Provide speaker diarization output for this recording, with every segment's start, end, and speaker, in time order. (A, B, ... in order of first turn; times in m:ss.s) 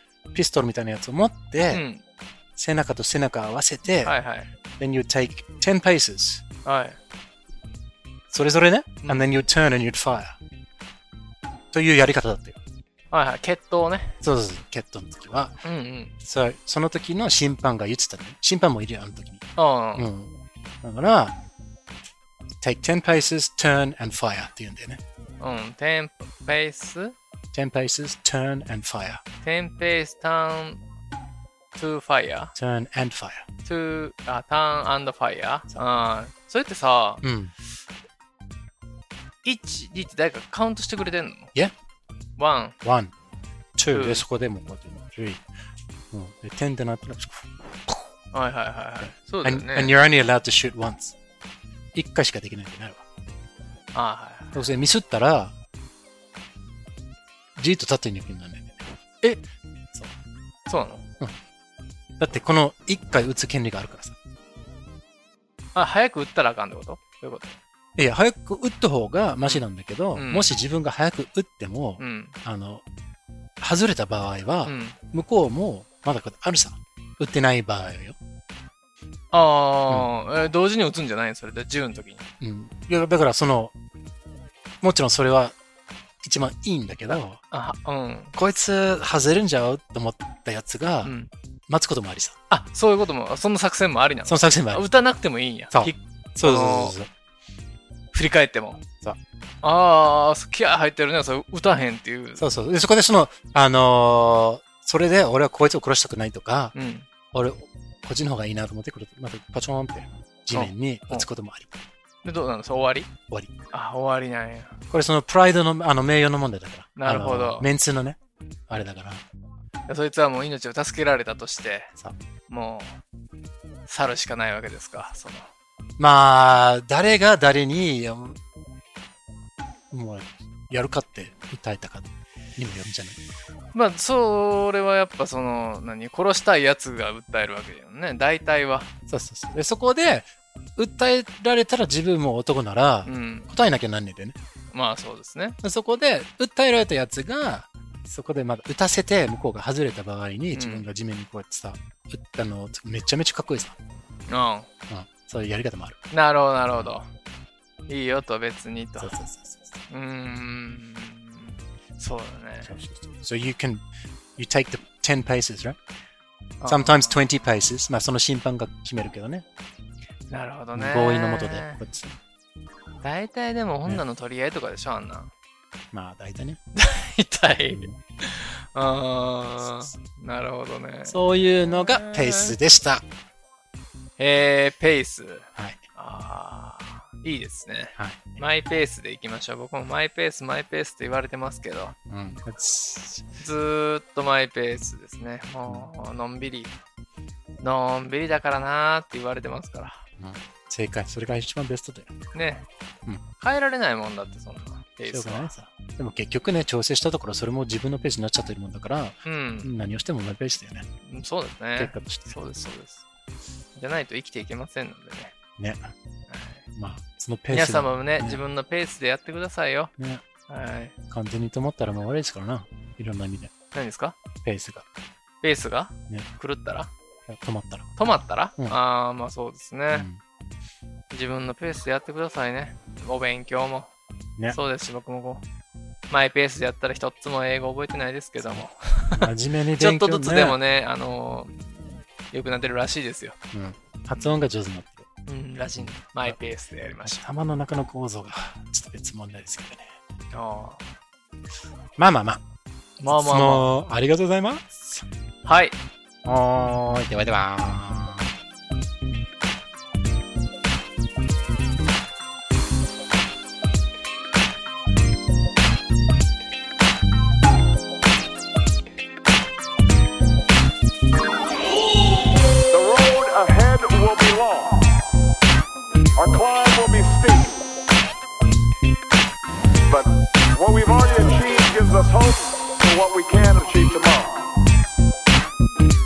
0:00.3-0:01.8 A
0:01.7-0:02.0 B
0:02.6-0:04.2 A
0:04.0-0:04.5 B
0:04.8-0:06.4 A
0:06.6-0:07.0 B
0:08.3-0:10.4 A
0:11.7-0:12.6 A
0:13.1-0:14.2 B
0:14.2-0:15.6 A
0:15.6-0:16.1 B
0:16.2-0:20.3 A
0:19.6-0:20.1 B
0:20.8-0:21.3 A
0:22.6-0:25.0 A
0:25.4-0:27.2 B
0:27.5-0:29.2 A
0:29.4-0:30.8 B
0:31.8-0:32.5 B
0:32.6-0:33.4 A
0:33.6-0:37.2 B
0:37.2-0:37.5 A
0:39.4-0:41.5 B
0:42.4-0:42.8 B
0:42.8-0:43.1 A
0:43.8-0:45.4 A
0:43.9-0:44.3 B
0:46.1-0:47.5 A
0:48.3-0:50.0 B
0:49.0-0:51.2 A
0:51.9-0:53.0 A
0:53.9-0:54.6 B
0:54.5-0:55.5 A
0:57.6-1:00.1 A
1:00.7-1:01.0 B
1:02.2-1:04.2 A
1:05.8-1:07.6 B
1:08.0-1:12.8 A
1:09.4-1:10.5 B
1:12.0-1:12.4 B
1:13.6-1:18.2 A
1:14.7-1:15.0 B
1:19.3-1:22.2 B
1:22.4-1:23.7 A
1:24.8-1:25.6 A
1:26.2-1:27.4 A
1:27.1-1:28.4 B
1:28.4-1:31.2 A
1:31.0-1:31.3 B
1:31.7-1:32.4 A
1:32.5-1:37.0 B
1:34.3-1:34.9 A
1:35.7-1:37.1 A
1:38.1-1:38.8 B
1:39.6-1:42.5 B
1:42.4-1:46.8 A
1:46.7-1:47.1 B
1:47.3-1:51.8 A
1:50.5-1:51.3 B
1:52.2-1:53.1 B
1:53.7-1:54.8 B
1:54.9-1:58.2 A
1:57.0-1:57.7 B
1:58.7-1:59.2 A
1:59.9-2:01.9 B
2:02.5-2:03.0 B
2:03.9-2:05.5 B
2:06.0-2:08.4 A
2:09.9-2:13.2 A
2:13.7-2:18.9 B
2:19.1-2:24.4 A
2:23.1-2:23.5 B
2:24.7-2:25.6 B
2:25.6-2:33.7 A
2:30.5-2:30.9 B
2:34.3-2:34.7 B
2:34.9-2:36.0 A
2:36.1-2:37.1 B
2:37.9-2:39.2 B
2:39.0-2:39.8 A
2:39.9-2:42.7 B
2:42.6-2:43.8 A
2:44.4-2:45.8 A
2:46.6-2:47.2 B
2:46.6-2:49.4 A
2:50.3-2:51.8 B
2:50.7-2:52.1 A
2:53.0-2:55.3 B
2:55.9-2:56.6 A
2:56.8-3:01.2 B
2:57.7-2:58.0 A
2:59.6-3:00.0 A
3:01.1-3:03.0 A
3:01.7-3:02.6 B
3:04.2-3:12.0 B
3:08.0-3:08.4 A
3:12.1-3:13.3 A
3:13.4-3:16.7 B
3:17.6-3:20.0 B
3:20.2-3:22.2 A
3:22.3-3:22.7 B
3:23.4-3:25.5 B
3:25.0-3:30.9 A
3:29.2-3:29.7 B
3:31.1-3:33.0 B
3:31.8-3:32.4 A
3:33.8-3:35.3 B
3:35.6-3:35.9 A
3:36.3-3:36.6 B
3:36.8-3:38.4 A
3:37.5-3:39.9 B
3:40.0-3:40.2 A
3:40.5-3:41.0 B
3:41.1-3:43.5 A
3:43.7-3:44.2 B
3:44.4-3:44.8 A
3:45.4-3:46.9 B
3:47.3-3:48.0 A
3:48.0-3:50.1 B
3:49.9-3:50.2 A
3:51.1-3:53.9 B
3:54.5-3:55.4 B
3:56.1-4:03.4 B
3:58.4-4:00.6 A
4:03.5-4:05.1 A
4:05.3-4:07.2 B
4:05.8-4:06.4 A
4:07.0-4:09.9 A
4:10.3-4:10.9 B
4:12.0-4:12.4 A
4:13.0-4:13.7 B
4:13.0-4:15.0 A
4:15.4-4:15.8 B
4:16.2-4:18.3 A
4:32.7-4:35.0 C
4:36.2-4:37.6 C
4:39.9-4:44.5 C